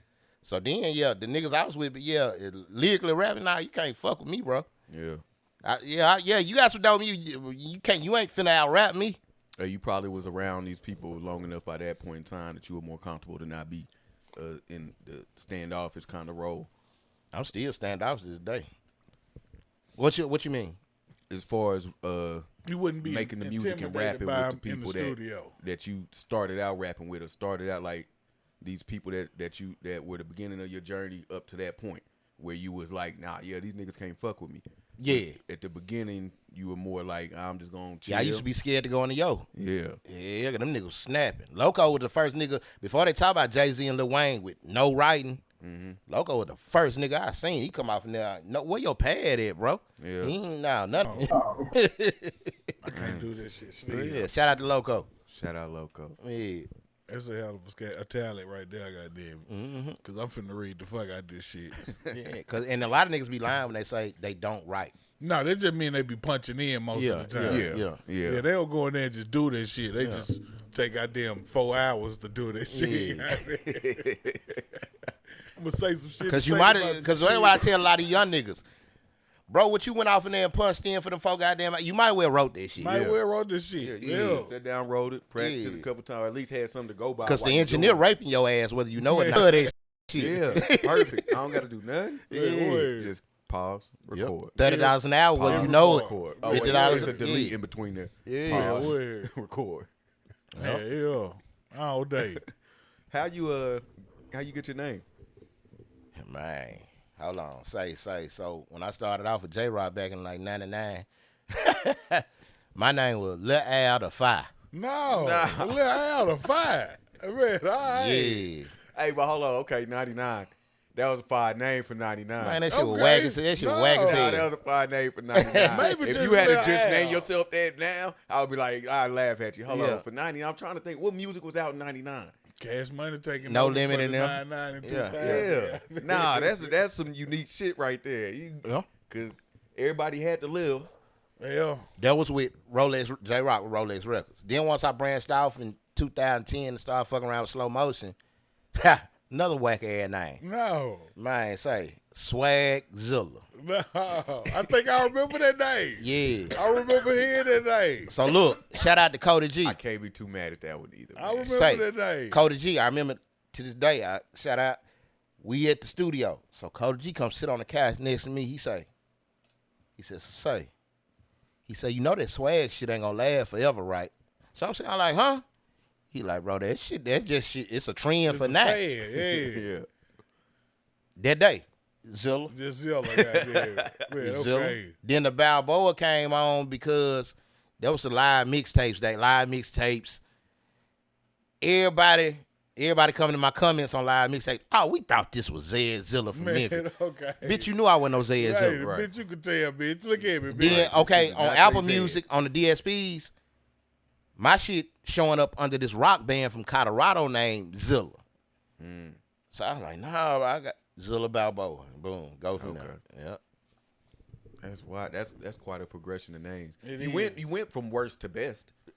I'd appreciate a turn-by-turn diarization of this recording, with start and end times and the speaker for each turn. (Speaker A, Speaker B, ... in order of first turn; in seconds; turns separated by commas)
Speaker A: 0.4-4.7, Speaker B: 4.9-5.2, Speaker A: 5.6-9.2, Speaker B: 9.6-16.7, Speaker A: 17.3-18.7, Speaker A: 20.0-20.8, Speaker B: 21.3-22.4, Speaker C: 22.7-25.5, Speaker B: 23.0-28.1, Speaker B: 28.6-38.4, Speaker A: 35.0-35.4, Speaker A: 38.1-39.5, Speaker B: 39.5-40.0, Speaker A: 40.0-45.4, Speaker B: 45.6-46.0, Speaker A: 46.1-52.5, Speaker B: 50.0-50.4, Speaker C: 51.0-51.3, Speaker C: 52.8-54.3, Speaker B: 52.9-53.3, Speaker A: 53.9-55.1, Speaker B: 55.3-56.2, Speaker A: 56.2-56.7, Speaker C: 57.1-59.5, Speaker A: 59.5-60.0, Speaker C: 60.0-62.0, Speaker A: 62.1-64.9, Speaker C: 65.2-67.7, Speaker A: 66.9-68.0, Speaker B: 67.4-68.4, Speaker C: 68.2-74.0, Speaker A: 70.0-70.2, Speaker A: 72.7-73.3, Speaker B: 73.6-74.6, Speaker C: 75.5-77.7, Speaker A: 76.3-78.6, Speaker A: 79.5-83.0, Speaker C: 82.8-84.5, Speaker B: 82.9-83.2, Speaker B: 83.8-88.0, Speaker A: 85.4-85.9, Speaker A: 87.2-91.3, Speaker C: 89.0-89.7, Speaker B: 90.1-92.3, Speaker C: 92.3-93.1, Speaker A: 92.3-92.9, Speaker B: 92.8-94.5, Speaker A: 94.1-97.6, Speaker C: 94.6-97.3, Speaker B: 95.3-99.9, Speaker A: 98.2-99.0, Speaker C: 98.5-99.3, Speaker A: 100.5-100.8, Speaker C: 100.5-102.4, Speaker B: 102.2-102.5, Speaker B: 103.1-105.0, Speaker A: 106.2-114.5, Speaker C: 114.7-118.5, Speaker B: 115.0-115.9, Speaker A: 117.8-118.7, Speaker B: 118.9-122.6, Speaker A: 122.4-124.5, Speaker C: 122.7-124.4, Speaker B: 124.0-132.3, Speaker A: 125.3-125.9, Speaker C: 125.7-127.3, Speaker A: 129.7-130.0, Speaker C: 132.6-136.7, Speaker A: 133.4-135.5, Speaker B: 135.2-141.0, Speaker C: 141.4-141.9, Speaker A: 142.0-148.2, Speaker A: 148.7-150.4, Speaker C: 150.4-151.1, Speaker A: 151.2-153.4, Speaker C: 153.6-158.3, Speaker A: 156.0-156.6, Speaker A: 158.1-159.8, Speaker B: 159.6-161.5, Speaker C: 161.2-162.4, Speaker A: 161.4-164.8, Speaker A: 165.4-168.9, Speaker A: 170.0-170.7, Speaker A: 171.7-175.4, Speaker A: 176.1-178.8, Speaker C: 178.3-179.7, Speaker B: 179.2-179.8, Speaker A: 181.2-182.5, Speaker C: 182.5-184.9, Speaker B: 183.0-183.9, Speaker A: 184.2-190.2, Speaker A: 191.6-196.8, Speaker C: 196.3-197.7, Speaker A: 197.4-198.8, Speaker C: 198.3-202.2, Speaker B: 198.7-199.1, Speaker B: 200.5-201.4, Speaker A: 200.5-203.3, Speaker A: 204.4-208.2, Speaker B: 208.8-209.2, Speaker A: 209.5-213.4, Speaker B: 212.6-213.0, Speaker B: 214.6-218.7, Speaker C: 216.8-217.5